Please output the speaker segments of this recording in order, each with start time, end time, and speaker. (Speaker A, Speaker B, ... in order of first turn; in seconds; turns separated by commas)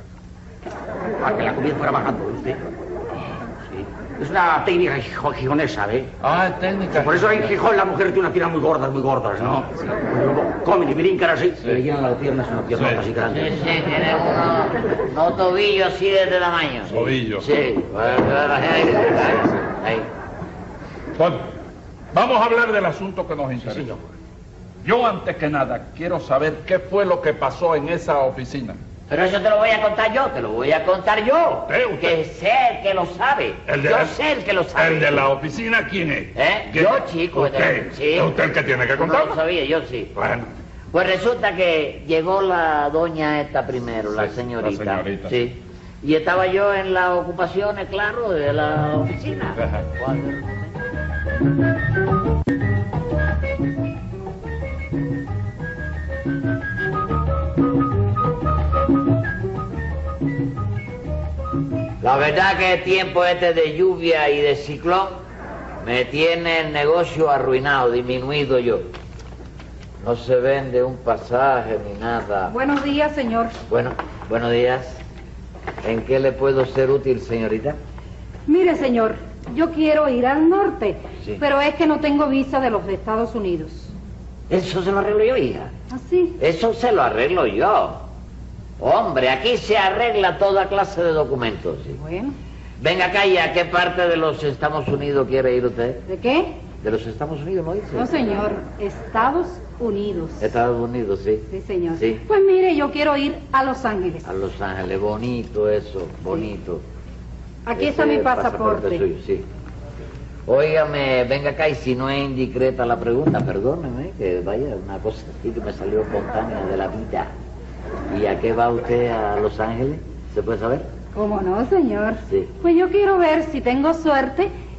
Speaker A: 1.2-2.6, Speaker A: 3.6-6.1, Speaker B: 6.2-7.5, Speaker A: 6.9-13.5, Speaker B: 12.7-13.1, Speaker C: 13.2-20.1, Speaker B: 16.9-17.5, Speaker B: 21.1-21.5, Speaker B: 22.1-23.9, Speaker A: 23.6-24.0, Speaker B: 24.8-28.8, Speaker C: 29.1-35.3, Speaker B: 31.7-32.2, Speaker B: 33.7-34.1, Speaker B: 34.8-39.4, Speaker C: 36.4-38.3, Speaker C: 39.0-40.1, Speaker B: 40.1-40.5, Speaker C: 40.9-50.8, Speaker B: 44.2-45.4, Speaker B: 49.6-49.9, Speaker C: 62.0-65.2, Speaker C: 65.8-68.9, Speaker C: 70.0-72.5, Speaker D: 72.5-73.5, Speaker C: 73.7-75.0, Speaker C: 75.8-77.8, Speaker D: 78.5-83.9, Speaker C: 84.5-85.7, Speaker D: 85.9-86.4, Speaker C: 86.4-88.0, Speaker C: 88.8-92.0, Speaker D: 92.0-92.3, Speaker C: 92.8-96.0, Speaker D: 96.1-96.6, Speaker C: 96.8-98.1, Speaker D: 97.9-100.5, Speaker C: 100.4-102.2, Speaker D: 101.5-104.3, Speaker C: 104.2-106.8, Speaker D: 107.7-109.0, Speaker C: 107.8-109.5, Speaker C: 110.5-117.3, Speaker C: 118.1-120.9, Speaker D: 121.1-124.5